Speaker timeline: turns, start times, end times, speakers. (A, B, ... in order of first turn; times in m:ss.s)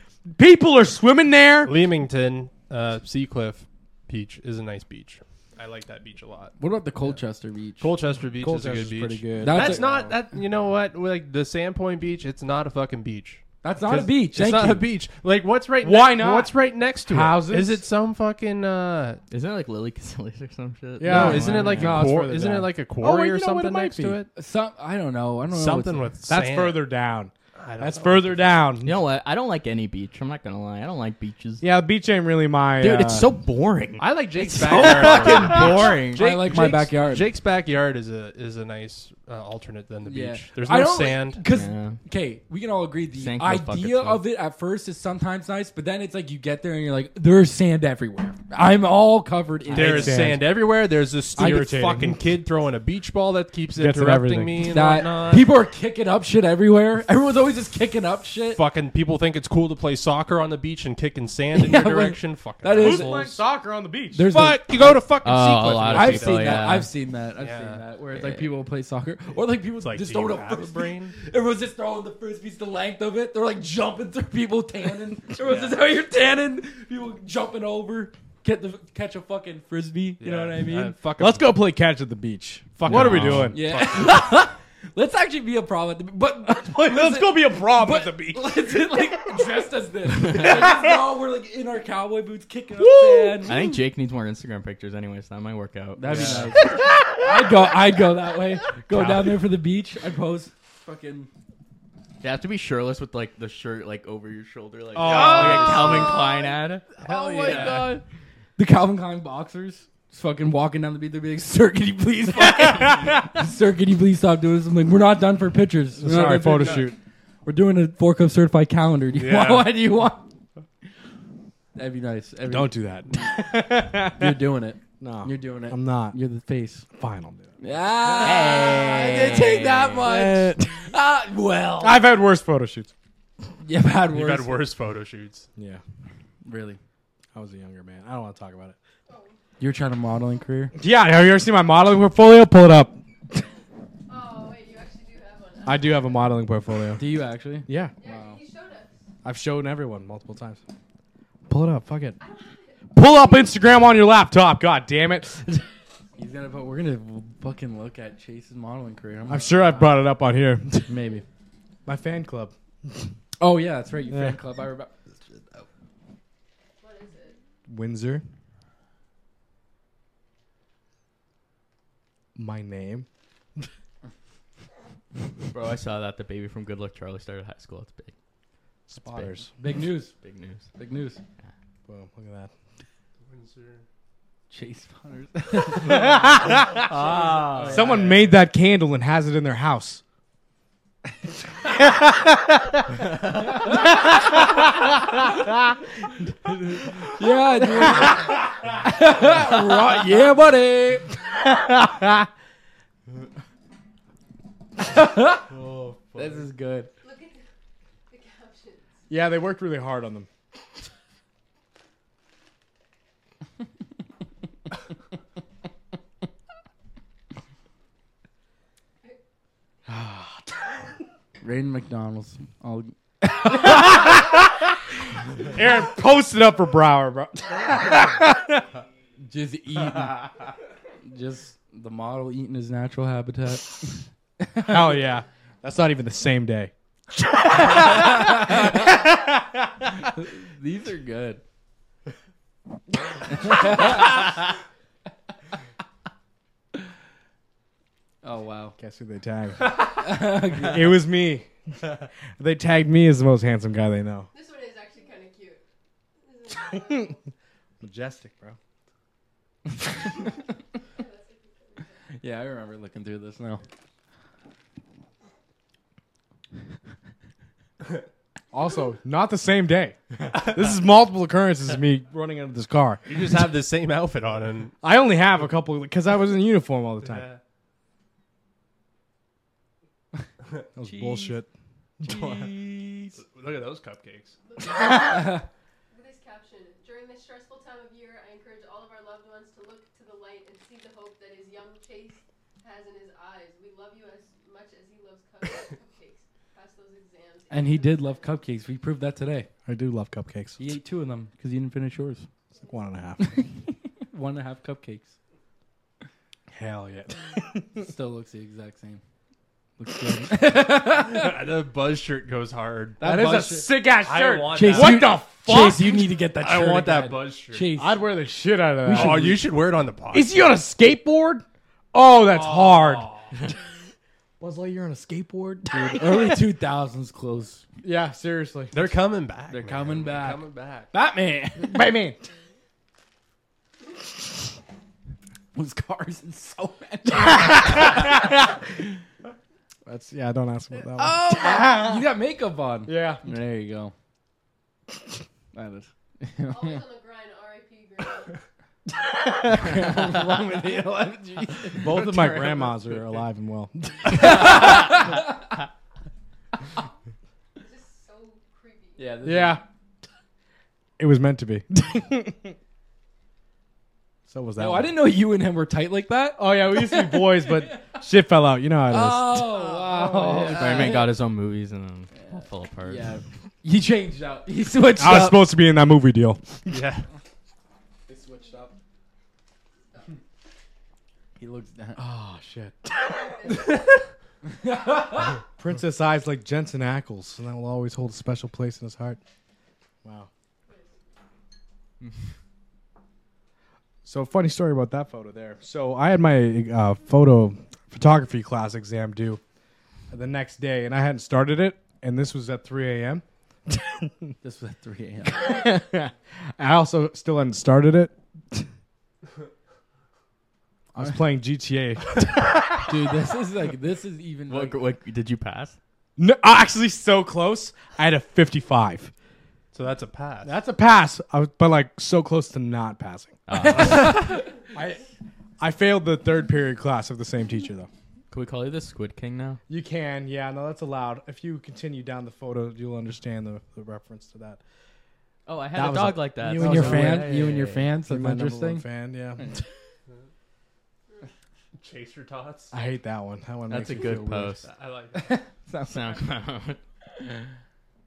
0:00.3-0:01.8 A
0:01.6-0:06.6 B
0:06.6-0:07.9 C
0:07.8-0:19.2 B
0:08.4-0:10.1 A
0:09.4-0:10.0 C
0:13.6-0:14.9 C
0:15.8-0:17.8 A
0:19.3-0:22.1 D
0:21.0-0:24.2 A
0:21.0-0:24.3 B
0:21.1-0:21.8 C
0:24.3-0:26.1 C
0:25.5-0:26.8 B
0:26.3-0:29.0 A
0:27.6-0:28.5 B
0:28.8-0:31.6 D
0:31.6-0:33.3 A
0:32.8-0:36.4 D
0:34.0-0:41.4 B
0:34.8-0:35.4 C
0:36.0-0:37.3 C
0:40.0-0:50.3 C
0:41.5-0:42.0 D
0:43.1-0:44.2 D
0:49.7-0:55.5 B
0:49.7-0:50.6 A
0:51.3-0:52.2 A
0:53.7-0:54.7 A
0:54.7-0:58.6 C
0:58.5-1:03.4 B
1:01.5-1:03.3 C
1:02.7-1:04.3 A
1:04.1-1:05.0 C
1:04.2-1:06.8 B
1:05.2-1:06.9 D
1:05.8-1:21.0 C
1:07.4-1:07.8 B
1:08.2-1:08.5 D
1:09.8-1:11.2 B
1:15.4-1:15.8 B
1:20.2-1:21.6 B
1:21.2-1:23.6 A
1:22.8-1:24.4 B
1:22.9-1:23.5 D
1:23.5-1:33.6 C
1:26.4-1:29.0 A
1:30.4-1:30.9 A
1:32.8-1:33.7 A
1:33.4-1:36.6 D
1:36.0-1:41.3 C
1:36.1-1:36.5 A
1:38.9-1:39.3 D
1:42.2-1:48.0 D
1:44.9-1:46.2 A
1:45.0-1:46.2 C
1:45.1-1:46.1 B
1:47.0-1:47.9 B
1:47.0-1:48.0 C
1:48.6-1:56.9 C
1:52.6-1:53.2 A
1:56.0-1:57.0 A
1:56.5-1:56.9 B
1:57.4-2:00.2 C
1:59.1-1:59.7 B
2:01.7-2:02.8 C
2:02.5-2:04.4 A
2:04.1-2:06.8 C
2:05.0-2:06.2 A
2:06.9-2:07.6 A
2:07.6-2:12.0 C
2:08.1-2:08.7 B
2:08.2-2:10.1 D
2:09.0-2:09.5 A
2:10.0-2:10.9 A
2:11.8-2:12.9 A
2:13.6-2:14.6 C
2:14.1-2:15.5 B
2:15.6-2:15.8 A
2:16.4-2:16.8 C
2:17.3-2:18.8 A
2:19.1-2:19.4 E
2:19.6-2:20.7 C
2:20.8-2:23.4 A
2:24.1-2:26.4 E
2:25.6-2:27.0 A
2:27.0-2:28.3 C
2:27.7-2:27.9 A
2:28.0-2:29.0 E
2:29.2-2:30.6 A
2:31.5-2:32.2 A
2:32.2-2:33.7 E
2:32.9-2:35.6 A
2:36.2-2:40.0 C
2:39.3-2:40.9 A
2:40.9-2:41.2 C
2:41.8-2:43.1 A
2:43.4-2:44.9 C
2:44.1-2:44.4 A
2:46.8-2:47.4 E
2:47.7-2:48.2 A
2:52.4-2:53.1 A
2:55.5-2:58.1 D
2:58.9-2:59.5 A
2:59.0-2:59.4 D
2:59.6-3:00.1 C
3:00.2-3:00.7 D
3:00.8-3:01.2 C
3:01.9-3:02.5 A
3:03.2-3:03.8 B
3:04.5-3:06.1 C
3:05.8-3:06.9 A
3:06.9-3:08.0 B
3:06.9-3:08.3 C
3:06.9-3:07.7 D
3:07.7-3:10.0 A
3:11.7-3:13.0 A
3:13.7-3:15.8 A
3:16.7-3:17.1 A
3:17.1-3:21.1 C
3:17.8-3:18.3 A
3:21.3-3:22.3 A
3:24.8-3:25.5 C
3:25.5-3:26.4 B
3:26.1-3:26.9 C
3:27.0-3:27.4 E
3:28.1-3:29.0 E
3:29.1-3:30.3 A
3:39.9-3:40.8 A
3:41.4-3:43.8 C
3:43.4-3:44.7 A
3:45.4-3:48.6 A
3:49.2-3:50.4 C
3:51.0-3:54.9 C
3:54.6-3:56.7 A
3:57.4-4:00.1 A
3:57.7-3:58.9 C
4:00.1-4:01.4 C
4:03.3-4:04.2 C
4:08.2-4:08.8 C
4:08.8-4:14.3 A
4:09.8-4:10.9 C
4:14.3-4:15.6 E
4:16.2-4:17.2 E
4:16.6-4:16.9 A
4:17.8-4:18.6 A
4:20.9-4:22.0 E
4:22.2-4:23.6 C
4:28.5-4:33.3 A
4:33.1-4:34.7 B
4:34.8-4:37.3 A
4:37.0-4:37.4 B
4:40.7-4:41.5 A
4:40.8-4:41.4 C
4:42.0-4:42.5 A
4:42.0-4:43.2 C
4:43.2-4:44.4 B
4:44.4-4:58.4 E
4:45.0-4:45.4 C
4:57.5-4:59.5 C
4:59.7-5:00.6 A
5:00.6-5:02.3 C
5:02.6-5:03.3 A
5:04.0-5:05.2 C
5:06.5-5:07.9 A
5:07.8-5:09.0 C
5:09.8-5:11.3 C
5:10.9-5:15.1 B
5:13.0-5:13.7 C
5:13.1-5:16.1 A
5:14.5-5:18.0 C
5:16.4-5:17.7 B
5:17.8-5:19.5 A
5:18.8-5:19.3 C
5:18.9-5:20.4 B
5:20.1-5:23.6 A
5:22.3-5:23.3 B
5:24.4-5:26.4 A
5:25.7-5:27.6 C
5:27.8-5:28.9 A
5:28.7-5:30.9 B
5:29.5-5:30.4 C
5:30.9-5:31.9 C
5:31.6-5:32.2 A
5:35.5-5:38.1 C
5:37.1-5:38.5 A
5:39.8-5:42.0 A
5:41.0-5:43.9 C
5:42.8-5:43.2 A
5:45.5-5:46.8 C
5:46.4-5:48.4 E
5:49.3-5:49.6 A
5:49.5-5:53.0 C
5:51.7-5:54.8 A
5:54.1-5:55.3 C
5:57.6-5:59.3 E
5:59.0-5:59.6 C
5:59.2-5:59.6 A
6:01.0-6:02.5 A
6:04.3-6:04.9 A
6:04.6-6:08.0 C
6:06.4-6:10.9 A
6:08.9-6:11.1 C
6:10.4-6:13.2 D
6:12.2-6:15.5 C
6:15.0-6:16.8 A
6:16.7-6:17.0 B
6:18.1-6:18.7 C
6:19.9-6:20.2 E
6:21.4-6:22.0 C
6:22.0-6:23.2 A
6:23.1-6:23.8 E
6:24.6-6:25.4 C
6:25.6-6:29.2 A
6:30.0-6:30.3 A
6:30.7-6:30.9 E
6:34.0-6:39.4 A
6:40.1-6:44.3 A
6:44.4-6:45.5 C
6:45.2-6:48.7 A
6:50.9-6:53.1 A
6:52.9-6:54.8 C
6:54.5-6:55.8 D
6:56.2-6:59.1 A
6:59.7-7:00.5 B
7:00.4-7:03.4 A
7:03.5-7:04.4 D
7:03.5-7:04.5 C
7:04.7-7:05.0 A
7:05.6-7:07.9 A
7:08.3-7:09.6 D
7:09.7-7:14.6 A
7:15.4-7:17.3 D
7:15.7-7:19.5 A
7:16.4-7:18.8 C
7:19.4-7:19.6 C
7:21.8-7:22.7 B
7:22.7-7:24.6 A
7:23.7-7:24.6 D
7:24.6-7:25.4 B
7:25.1-7:26.1 C
7:25.8-7:26.8 D